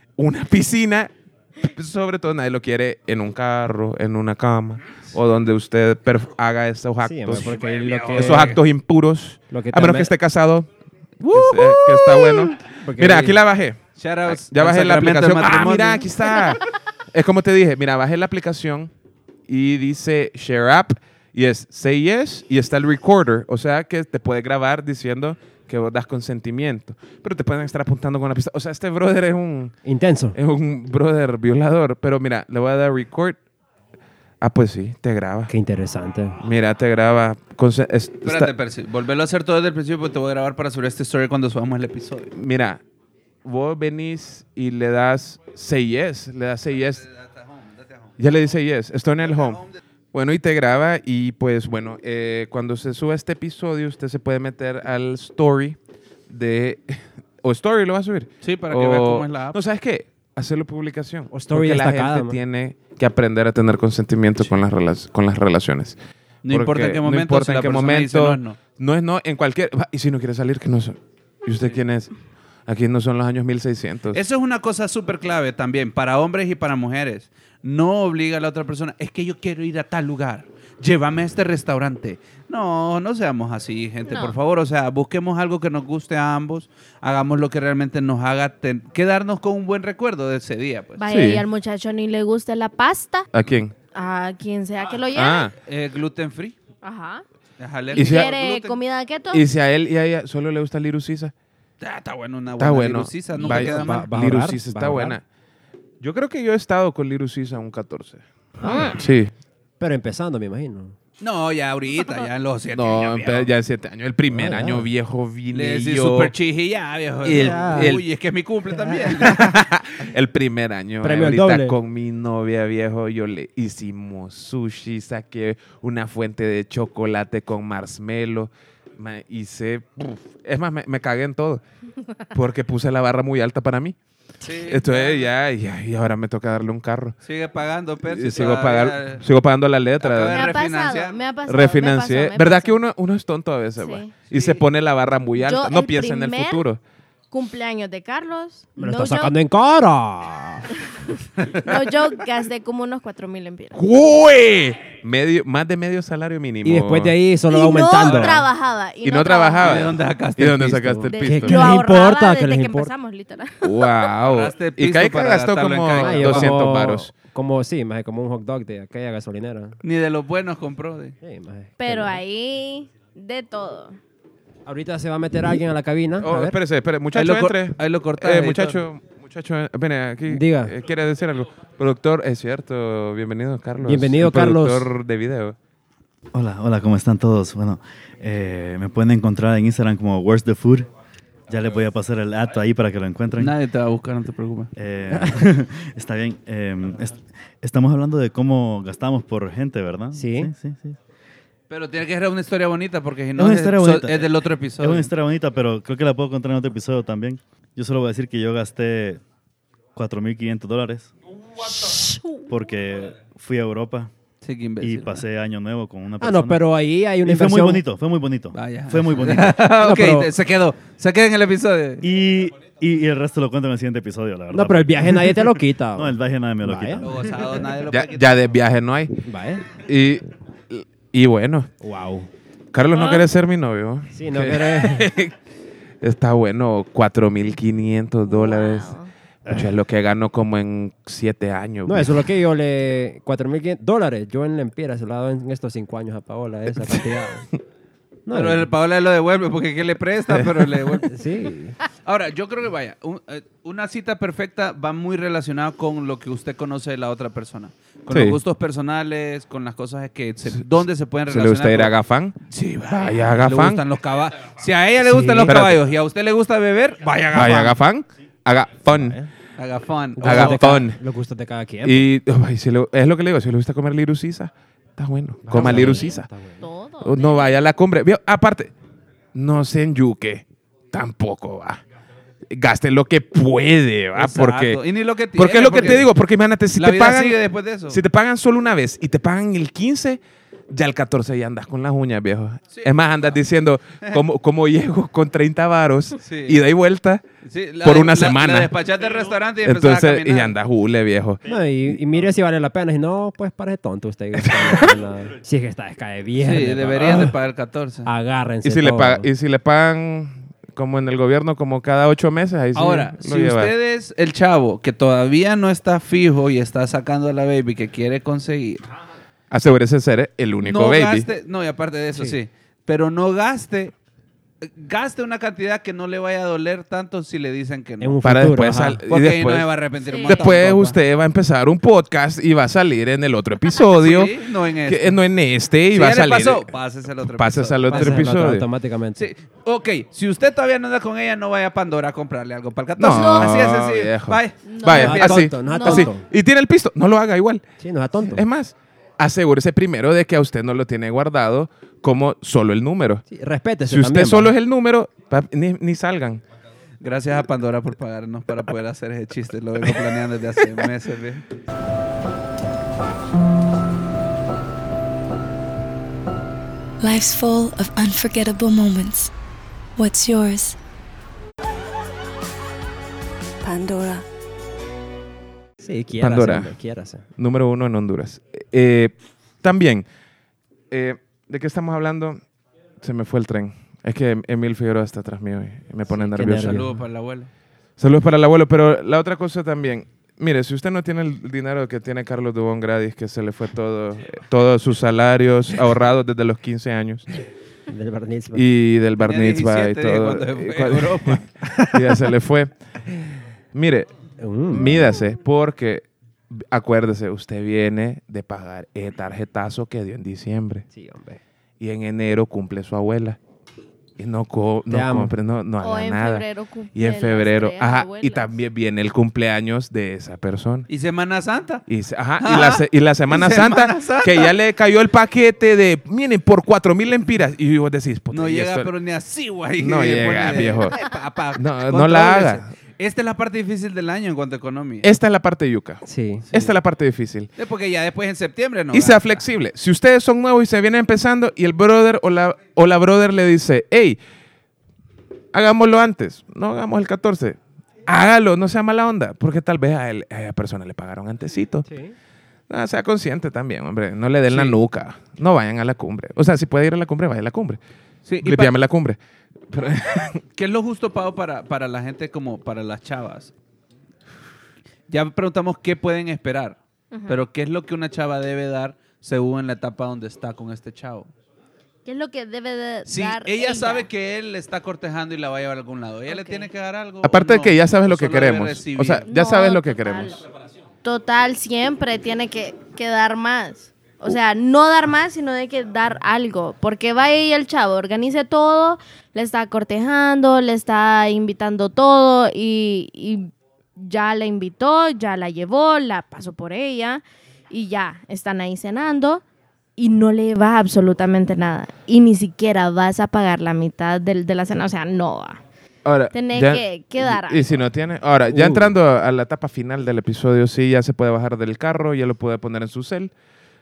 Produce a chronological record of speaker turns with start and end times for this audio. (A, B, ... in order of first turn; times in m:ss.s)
0:00.2-0:10.7 A
0:07.0-0:08.6 B
0:07.4-0:08.6 C
0:09.5-0:10.1 B
0:11.2-0:18.9 A
0:11.4-0:12.4 C
0:12.6-0:13.4 B
0:14.0-0:16.1 C
0:19.5-0:29.8 A
0:29.8-0:30.4 B
0:30.3-0:33.4 A
0:34.4-0:35.5 A
0:35.5-0:36.4 B
0:36.4-0:38.5 A
0:38.2-0:42.3 C
0:42.3-0:42.8 A
0:43.4-0:47.0 A
0:46.8-0:48.1 C
0:48.2-0:55.8 A
0:49.3-0:49.6 C
0:56.3-1:06.0 A
0:58.4-0:59.6 C
1:01.3-1:02.4 B
1:06.4-1:08.6 C
1:06.5-1:12.1 A
1:12.7-1:14.2 A
1:14.1-1:31.0 C
1:24.1-1:24.4 D
1:31.0-1:33.3 D
1:31.1-1:31.4 A
1:33.3-1:33.7 A
1:33.9-1:35.5 D
1:35.1-1:35.5 A
1:35.6-1:36.6 C
1:36.8-1:37.2 D
1:37.6-1:38.8 C
1:37.9-1:39.4 D
1:37.9-1:38.3 A
1:39.3-1:41.3 A
1:41.8-1:44.1 C
1:42.6-1:45.2 A
1:43.4-1:45.2 B
1:46.0-1:48.2 A
1:48.6-1:49.0 D
1:48.8-1:49.3 A
1:49.8-1:51.0 B
1:51.2-1:53.5 C
1:52.7-1:56.3 A
1:54.3-1:54.9 B
1:55.5-1:59.6 C
1:57.2-1:58.0 A
1:57.3-1:58.0 B
1:58.8-1:59.1 B
1:59.1-2:11.6 A
2:01.0-2:01.8 B
2:12.3-2:14.0 A
2:14.4-2:15.3 C
2:14.6-2:17.2 A
2:17.2-2:19.2 C
2:18.0-2:20.5 A
2:20.0-2:21.2 C
2:20.3-2:22.8 D
2:21.4-2:26.8 A
2:23.8-2:24.1 D
2:24.3-2:24.6 C
2:25.4-2:26.6 D
2:27.3-2:29.3 D
2:28.8-2:30.7 B
2:31.5-2:33.8 D
2:33.7-2:37.2 A
2:36.6-2:38.4 B
2:37.5-2:39.9 D
2:39.0-2:41.7 A
2:39.6-2:41.0 C
2:41.0-2:42.9 B
2:41.1-2:43.9 D
2:43.6-2:47.1 A
2:44.2-2:46.5 C
2:46.0-2:49.8 B
2:49.8-2:51.1 C
2:51.2-2:52.2 B
2:51.8-2:54.0 D
2:54.6-2:56.6 B
2:56.2-3:05.6 A
2:57.1-2:58.8 C
3:00.3-3:00.7 B
3:03.8-3:04.9 B
3:06.3-3:10.9 E
3:11.5-3:13.5 E
3:13.4-3:14.7 C
3:14.8-3:21.0 E
3:15.1-3:15.5 B
3:20.1-3:20.5 B
3:21.7-3:25.1 C
3:23.4-3:29.2 E
3:29.9-3:31.1 E
3:31.8-3:32.5 D
3:32.5-3:34.1 E
3:34.4-3:35.2 C
3:34.8-3:36.6 E
3:36.2-3:37.8 B
3:37.2-3:39.7 E
3:38.5-3:42.0 C
3:39.8-3:40.3 B
3:42.0-3:47.2 E
3:44.5-3:47.0 B
3:47.0-3:48.3 C
3:47.8-3:49.2 A
3:49.2-3:49.7 B
3:49.7-3:51.7 A
3:51.8-3:52.3 B
3:52.7-3:55.3 A
3:52.9-3:53.2 D
3:54.1-3:55.1 B
3:56.0-3:58.9 A
3:58.2-3:59.1 D
3:59.5-4:02.3 A
4:01.8-4:07.5 B
4:08.2-4:08.7 B
4:08.3-4:11.1 C
4:10.3-4:10.9 A
4:11.1-4:11.8 B
4:12.0-4:21.9 C
4:18.1-4:18.4 A
4:21.3-4:22.4 A
4:22.5-4:27.8 C
4:22.9-4:23.8 A
4:25.0-4:25.8 A
4:27.3-4:29.2 A
4:29.6-4:30.8 C
4:30.2-4:32.1 B
4:30.2-4:31.0 A
4:31.8-4:36.3 A
4:35.5-4:36.6 B
4:35.6-4:37.6 D
4:37.0-4:38.7 A
4:39.3-4:41.8 A
4:42.5-4:44.8 A
4:44.1-4:46.1 C
4:45.4-4:57.2 A
4:46.8-4:48.0 C
4:52.7-4:53.0 C
4:56.2-4:56.6 C
4:57.4-5:00.5 C
4:57.8-4:58.7 A
4:59.6-5:01.4 A
5:01.5-5:07.4 B
5:04.5-5:04.9 A
5:06.4-5:08.1 C
5:08.0-5:09.3 B
5:08.6-5:13.7 A
5:12.7-5:18.8 C
5:19.5-5:21.3 A
5:20.6-5:23.9 C
5:24.6-5:28.2 C
5:28.0-5:29.0 B
5:28.2-5:29.7 A
5:29.1-5:31.0 C
5:30.1-5:30.4 D
5:30.2-5:36.7 A
5:33.9-5:35.2 C
5:35.9-5:38.3 C
5:37.2-5:38.7 A
5:37.8-5:39.3 B
5:39.2-5:45.5 C
5:43.0-5:47.6 A
5:43.1-5:43.6 D
5:44.6-5:46.1 D
5:44.9-5:46.2 B
5:47.8-5:48.4 B
5:48.2-5:53.2 A
5:53.3-5:54.5 B
5:53.8-5:56.4 A
5:57.0-6:01.4 C
6:07.0-6:09.3 F
6:10.0-6:10.8 F
6:13.6-6:14.2 F
6:15.8-6:17.2 B
6:16.2-6:16.7 A
6:17.4-6:20.1 A
6:20.9-6:22.4 A
6:23.0-6:26.9 A
6:26.1-6:27.0 B
6:26.4-6:27.5 C
6:28.0-6:37.3 A
6:37.9-6:38.7 B
6:38.5-6:42.7 A
6:39.2-6:41.4 C
6:41.7-6:42.1 B
6:43.7-6:44.1 A
6:44.4-6:45.0 B
6:44.7-6:50.8 A
6:50.9-6:51.4 B
6:51.8-6:53.4 A
6:54.2-7:00.9 A
6:54.9-6:55.3 B
6:55.8-6:58.5 D
7:00.9-7:01.8 C
7:01.9-7:08.9 A
7:02.4-7:04.5 C
7:08.3-7:15.1 C
7:09.8-7:11.0 A
7:11.5-7:12.7 A
7:15.0-7:17.5 A
7:16.0-7:16.5 B
7:16.5-7:16.8 C
7:17.6-7:19.4 C
7:18.9-7:24.2 A
7:25.5-7:31.8 A
7:31.8-7:32.1 B
7:32.7-7:37.8 A
7:34.5-7:34.8 C
7:38.2-7:38.8 C
7:38.4-7:39.2 A
7:39.7-7:40.4 A
7:40.6-7:43.5 C
7:45.1-7:51.3 C
7:47.1-7:47.4 D
7:52.0-7:54.1 D
7:53.0-7:59.2 C
7:56.3-7:56.7 D
7:57.2-8:00.4 A
7:59.2-8:00.4 D
8:01.0-8:19.4 D
8:20.0-8:25.6 D
8:26.0-8:33.3 A
8:26.3-8:27.8 D
8:28.5-8:28.9 B